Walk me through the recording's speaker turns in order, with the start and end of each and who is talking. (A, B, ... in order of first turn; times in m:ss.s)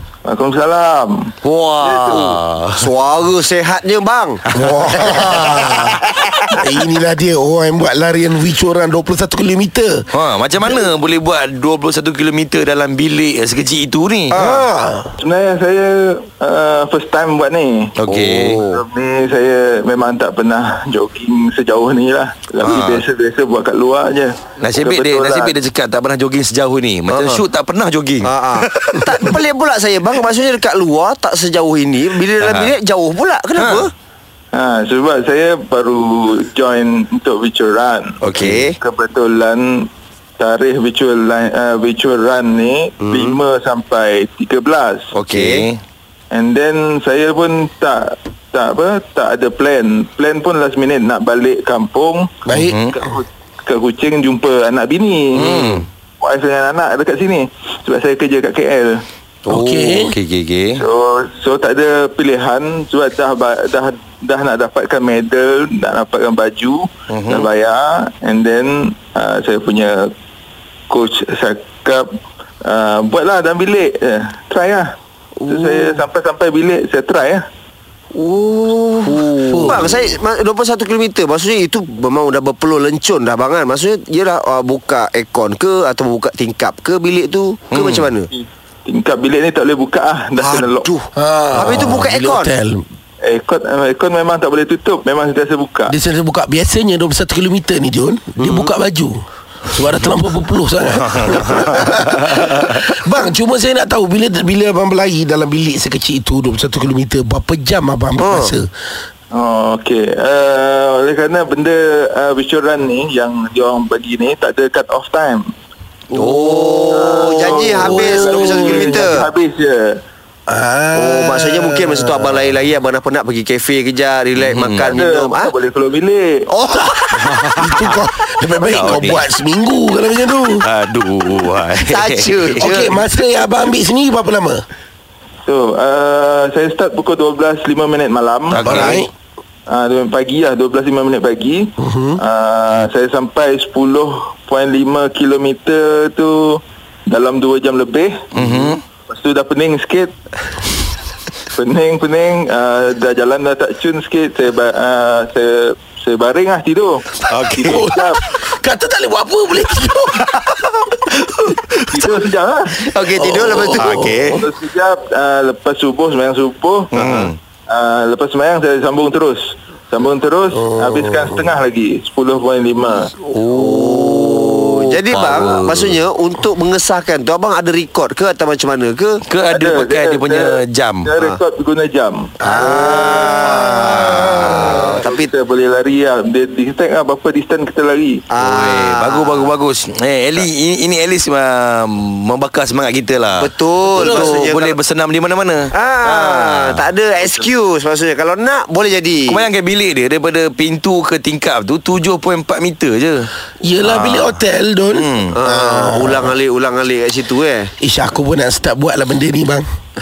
0:00.2-0:02.4 A
0:01.4-0:02.9 B
0:02.8-0:04.4 C
0:04.5-0:05.5 B
0:04.5-0:10.1 D
0:05.0-0:06.6 C
0:10.1-0:14.6 B
0:14.3-0:14.7 C
0:14.3-0:15.1 D
0:15.2-0:18.0 A
0:18.0-0:18.6 B
0:18.1-0:18.8 C
0:18.7-0:25.6 A
0:22.6-0:23.0 B
0:24.6-0:29.4 B
0:27.1-0:27.4 C
0:28.2-0:33.9 C
0:32.4-0:32.7 B
0:33.6-0:33.9 B
0:34.5-0:38.2 A
0:38.2-0:38.8 C
0:38.4-0:38.6 B
0:38.8-0:45.1 A
0:43.0-0:43.4 C
0:45.1-0:45.7 C
0:45.3-0:45.8 B
0:46.3-0:59.0 A
0:52.5-0:52.8 D
0:52.5-0:53.0 B
0:55.4-0:55.9 B
0:59.5-1:00.8 B
0:59.5-1:00.2 D
1:00.8-1:10.1 A
1:07.1-1:07.5 B
1:10.9-1:12.1 A
1:12.6-1:14.9 A
1:15.4-1:16.0 C
1:15.5-1:17.4 A
1:18.1-1:28.3 C
1:19.1-1:20.0 D
1:27.7-1:28.1 B
1:28.3-1:30.9 A
1:30.4-1:32.5 C
1:31.2-1:32.8 D
1:33.2-1:35.9 A
1:35.9-1:48.7 D
1:38.4-1:38.7 C
1:41.0-1:42.8 B
1:48.2-1:48.5 C
1:49.3-1:55.5 A
1:56.1-1:57.7 B
1:56.1-1:59.3 C
1:56.9-2:00.0 A
1:57.7-1:59.0 D
2:00.5-2:02.4 D
2:01.0-2:05.5 C
2:04.4-2:05.0 B
2:04.9-2:06.5 A
2:06.5-2:07.9 C
2:07.2-2:08.0 B
2:07.4-2:10.6 D
2:08.6-2:09.3 B
2:10.6-2:13.0 B
2:11.8-2:13.0 C
2:12.6-2:14.6 D
2:15.5-2:19.0 A
2:18.5-2:19.0 B
2:18.6-2:19.1 D
2:19.7-2:28.3 A
2:21.8-2:22.2 D
2:28.3-2:28.8 B
2:29.1-2:30.1 A
2:31.5-2:37.2 A
2:37.3-2:37.9 B
2:37.4-2:40.3 D
2:37.8-2:38.2 A
2:40.2-2:42.1 B
2:41.9-2:42.9 A
2:42.8-2:44.1 C
2:43.1-2:44.5 B
2:43.3-2:44.4 D
2:44.0-2:46.9 A
2:46.9-2:47.4 B
2:46.9-2:47.3 C
2:47.7-2:53.1 A
2:50.5-2:51.6 D
2:53.3-2:56.0 B
2:53.4-2:59.2 C
2:59.3-3:01.1 B
2:59.5-3:08.2 A
3:02.4-3:05.3 C
3:02.4-3:05.0 B
3:08.3-3:09.5 C
3:08.4-3:17.5 B
3:13.4-3:14.8 C
3:14.0-3:14.4 D
3:15.7-3:19.5 C
3:19.3-3:23.3 B
3:23.6-3:26.3 D
3:23.8-3:24.4 B
3:25.0-3:25.4 B
3:25.3-3:27.7 C
3:27.8-3:29.7 D